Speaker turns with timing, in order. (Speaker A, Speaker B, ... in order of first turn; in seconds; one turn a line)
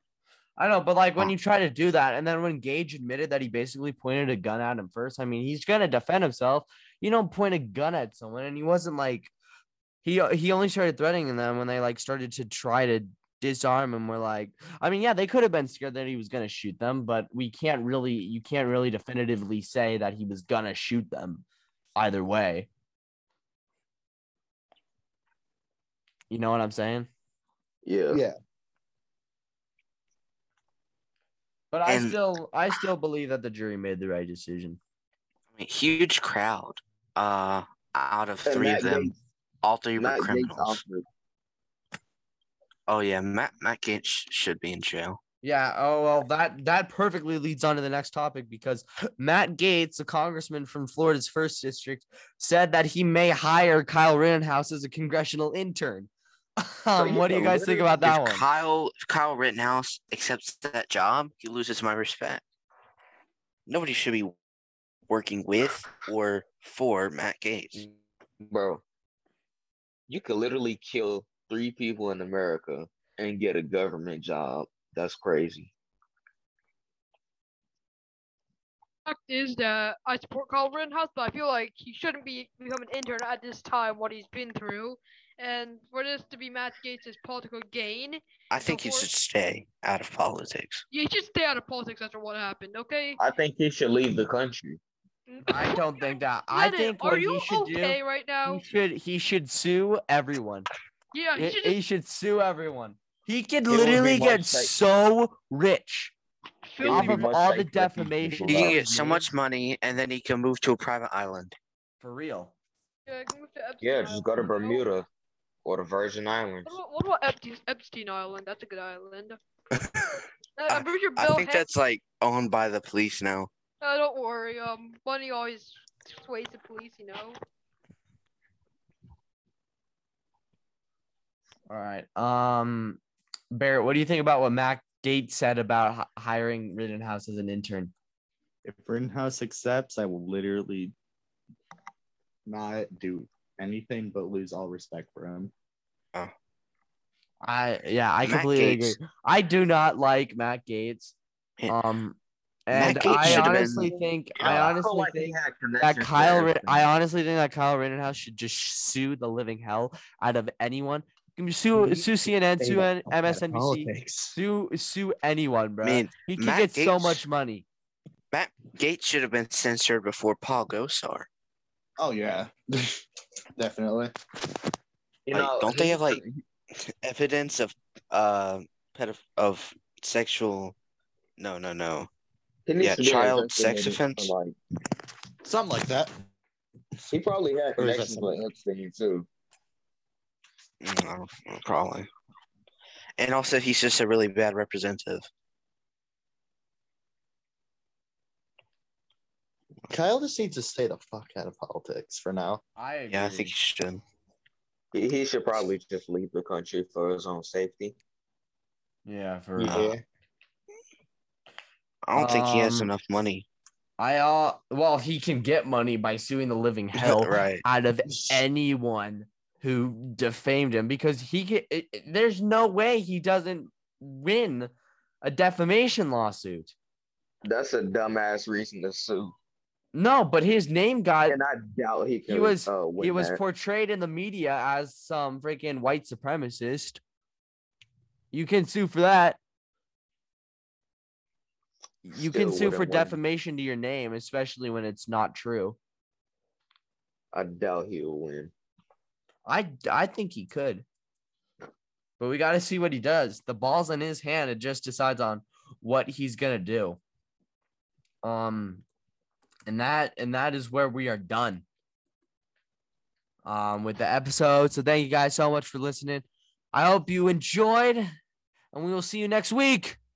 Speaker A: 0.6-9.3
Speaker A: 10.0-21.4
Speaker A: 21.9-22.7
Speaker A: 26.3-27.1
Speaker B: 27.8-28.2
Speaker C: 28.1-28.4
Speaker A: 31.7-34.8
Speaker D: 31.9-32.2
Speaker D: 35.5-40.8
Speaker B: 38.5-39.1
Speaker B: 40.0-41.0
Speaker D: 42.9-45.2
Speaker A: 45.4-58.4
Speaker B: 57.0-58.0
Speaker D: 58.0-62.4
Speaker D: 63.7-64.3
Speaker D: 65.1-67.8
Speaker B: 68.4-68.8
Speaker B: 70.1-75.7
Speaker E: 79.0-89.1
Speaker D: 88.5-90.8
Speaker E: 90.9-93.2
Speaker B: 93.2-94.8
Speaker E: 95.3-98.6
Speaker A: 95.5-100.7
Speaker E: 101.1-101.8
Speaker A: 101.3-106.1
Speaker B: 103.7-104.7
Speaker E: 106.7-107.3
Speaker B: 106.8-108.8
Speaker A: 106.8-109.3
Speaker D: 108.5-111.5
Speaker A: 112.0-112.5
Speaker E: 113.1-114.8
Speaker B: 113.8-115.1
Speaker B: 115.6-116.7
Speaker E: 116.7-119.4
Speaker D: 119.8-123.5
Speaker E: 120.6-121.7
Speaker E: 123.8-127.4
Speaker A: 131.7-133.0
Speaker A: 133.5-137.9
Speaker C: 138.6-140.9
Speaker C: 142.4-145.5
Speaker A: 147.4-151.1
Speaker D: 148.2-149.0
Speaker A: 151.7-167.6
Speaker D: 152.7-153.9
Speaker B: 153.1-156.9
Speaker C: 161.8-162.1
Speaker C: 162.6-164.4
Speaker D: 165.8-167.2
Speaker D: 168.3-171.3
Speaker C: 172.0-173.0
Speaker C: 173.6-174.1
Speaker B: 175.3-176.4
Speaker D: 175.3-176.2
Speaker D: 176.9-180.7
Speaker D: 181.4-182.1
Speaker B: 182.7-184.6
Speaker D: 182.8-184.3
Speaker C: 185.4-186.1
Speaker B: 187.1-189.3
Speaker C: 187.8-188.4
Speaker D: 190.8-192.1
Speaker D: 193.2-195.3
Speaker C: 199.9-202.6
Speaker A: 202.8-203.5
Speaker D: 203.1-204.0
Speaker B: 204.9-207.9
Speaker A: 209.1-209.9
Speaker B: 209.6-210.0
Speaker D: 212.1-213.5
Speaker A: 212.1-212.9
Speaker A: 214.0-224.7
Speaker D: 216.9-217.6
Speaker A: 225.2-226.7
Speaker B: 227.4-229.3
Speaker A: 229.9-231.4
Speaker B: 231.2-233.4
Speaker A: 232.2-237.0
Speaker A: 238.3-239.4
Speaker A: 242.0-245.8
Speaker B: 242.1-243.2
Speaker B: 247.3-248.5
Speaker A: 249.4-250.8
Speaker A: 252.2-257.0
Speaker A: 258.2-258.8
Speaker A: 259.7-261.6
Speaker A: 263.4-268.1
Speaker A: 268.7-270.0